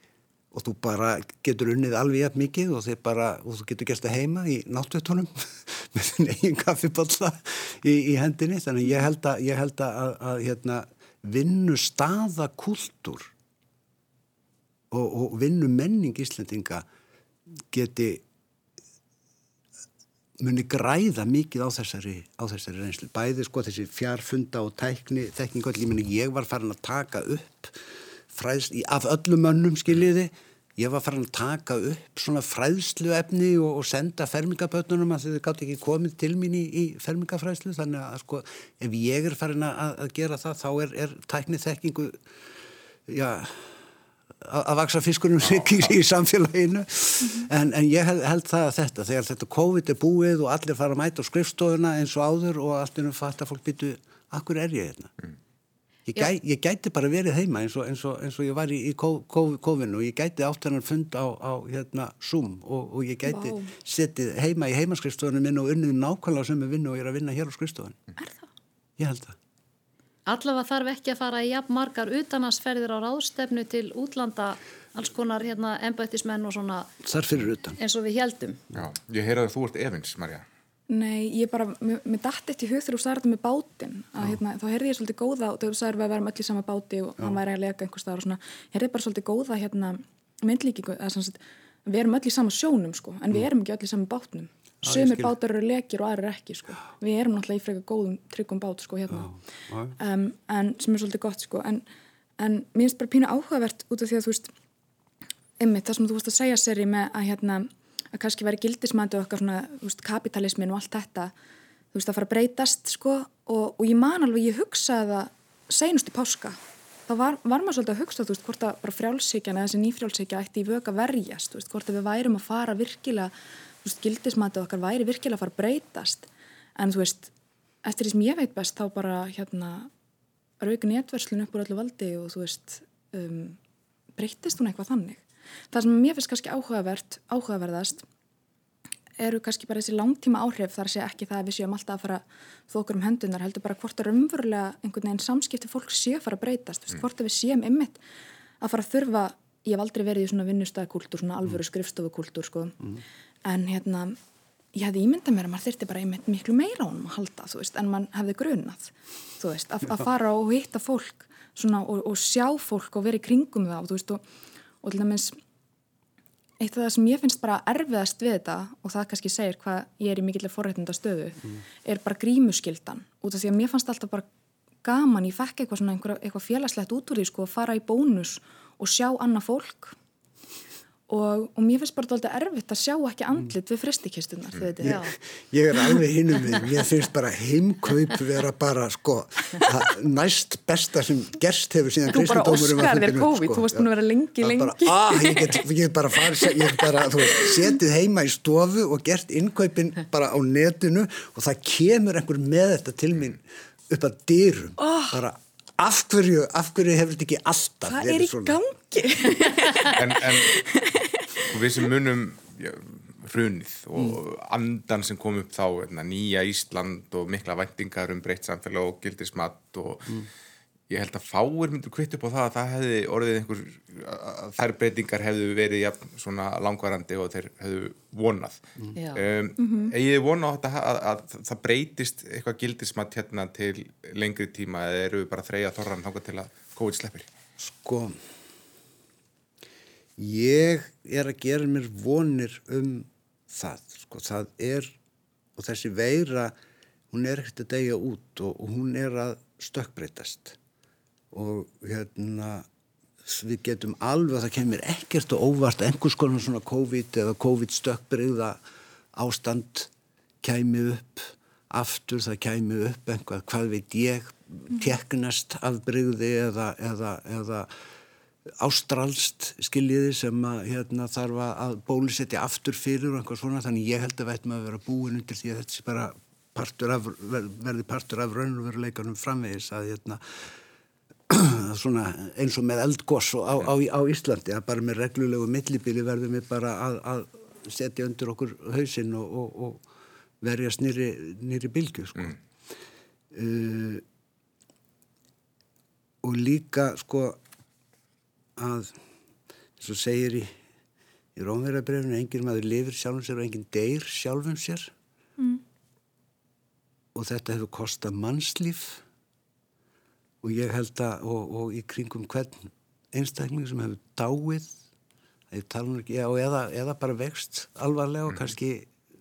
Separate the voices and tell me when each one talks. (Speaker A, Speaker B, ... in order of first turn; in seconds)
Speaker A: 0.5-13.3, 14.9-16.9, 17.7-18.2, 20.4-42.2, 43.1-43.8, 44.4-55.1, 56.1-68.0, 69.0-69.4, 77.0-77.8, 94.8-95.3, 99.1-100.0, 184.8-193.9, 194.4-208.6, 237.6-238.2, 240.2-244.9, 245.6-246.5, 247.1-250.6, 251.3-252.7, 253.2-258.6, 259.1-259.9, 260.4-267.7, 268.6-280.5, 281.3-289.8, 290.4-292.4, 293.3-294.0, 296.2-297.4, 298.6-298.9, 299.8-300.5, 301.4-304.9, 307.1-309.0, 310.4-314.8, 315.5-318.9
Speaker B: 63.3-63.7, 68.2-68.5, 80.9-99.4, 100.0-101.8, 102.4-104.5, 105.6-111.3, 111.9-127.3, 127.8-129.9, 130.6-133.6, 134.2-138.1, 139.2-148.0, 148.6-152.8, 153.4-154.2, 154.7-164.2, 164.8-165.4, 166.6-174.3, 174.8-179.9, 181.1-185.0, 192.1-195.6, 196.4-197.5, 204.8-205.2, 207.9-211.2, 229.6-229.9
Speaker C: 70.3-76.9, 77.8-78.6, 184.8-185.2, 228.9-229.2
Speaker D: 78.7-80.5, 209.8-210.6, 211.5-220.3, 220.9-228.6, 229.1-237.3